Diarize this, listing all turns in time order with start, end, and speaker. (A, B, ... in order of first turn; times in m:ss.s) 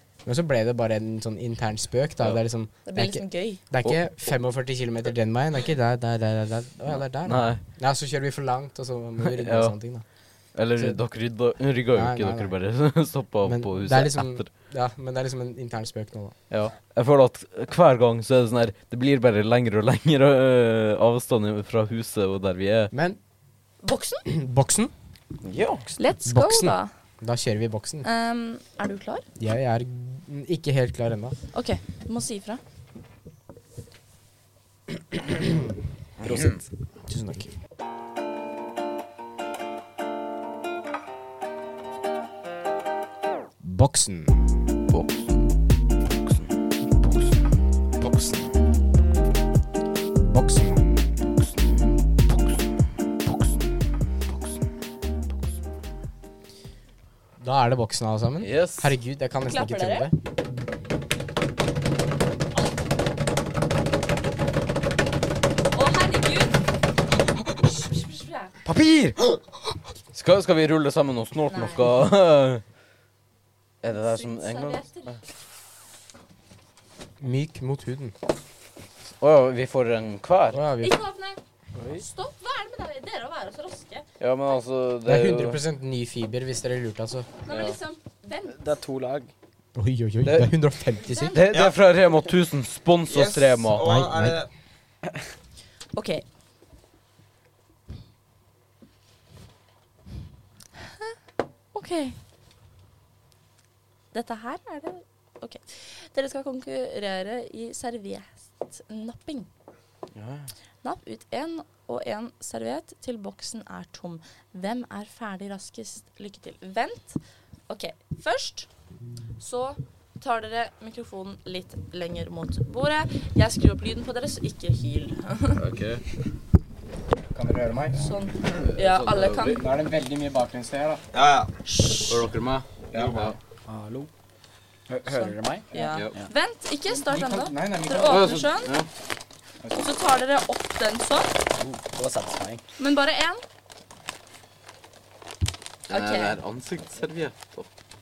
0:00.2-0:10.0 A
0:02.9-0:03.6 B
0:07.2-0:07.6 C
0:09.2-0:09.8 C
0:10.6-0:14.5 C
0:11.9-0:12.6 A
0:13.4-0:16.4 A
0:16.5-0:22.9 C
0:22.9-0:23.2 A
0:23.8-0:24.2 B
0:24.3-0:24.9 A
0:25.4-0:25.9 C
0:26.0-0:26.9 B
0:26.3-0:28.1 A
0:28.0-0:29.3 B
0:29.4-0:31.4 A
0:31.5-0:32.6 B
0:35.2-0:35.7 A
0:36.2-0:36.6 D
0:37.1-0:37.5 A
0:43.6-0:44.6 A
0:44.9-0:45.5 C
0:48.0-0:48.4 A
0:50.2-0:51.3 A
0:57.4-1:00.1 A
0:58.4-0:58.9 C
0:59.5-1:00.1 B
1:05.7-1:06.6 B
1:07.6-1:08.5 B
1:08.6-1:09.2 C
1:10.1-1:12.6 C
1:11.5-1:11.8 B
1:13.8-1:14.9 C
1:13.9-1:15.2 B
1:17.2-1:18.2 A
1:19.2-1:20.6 C
1:20.5-1:21.0 A
1:20.8-1:21.4 B
1:21.8-1:22.0 C
1:22.0-1:24.1 B
1:24.2-1:25.6 C
1:25.1-1:27.3 A
1:27.5-1:28.6 B
1:27.5-1:27.8 C
1:28.5-1:29.3 D
1:29.8-1:31.4 A
1:30.2-1:30.5 C
1:31.1-1:31.4 B
1:31.3-1:34.1 C
1:31.5-1:31.8 E
1:33.1-1:34.5 E
1:33.8-1:34.4 A
1:35.9-1:36.2 B
1:41.7-1:42.2 B
1:44.1-1:49.5 B
1:50.2-1:50.5 C
1:50.8-1:58.7 B
1:59.4-2:05.6 B
2:05.6-2:06.0 C
2:07.3-2:08.1 A
2:08.0-2:09.6 B
2:08.4-2:09.6 C
2:09.5-2:11.0 A
2:11.1-2:11.6 E
2:11.7-2:12.2 B
2:12.1-2:13.4 C
2:12.9-2:13.2 A
2:12.9-2:13.3 E
2:13.7-2:14.1 D
2:14.9-2:16.3 D
2:15.1-2:18.7 B
2:16.9-2:18.5 A
2:18.1-2:18.9 C
2:19.6-2:19.9 A
2:19.8-2:21.3 B
2:21.6-2:22.6 D
2:22.8-2:23.4 B
2:25.9-2:26.4 B
2:25.9-2:27.7 C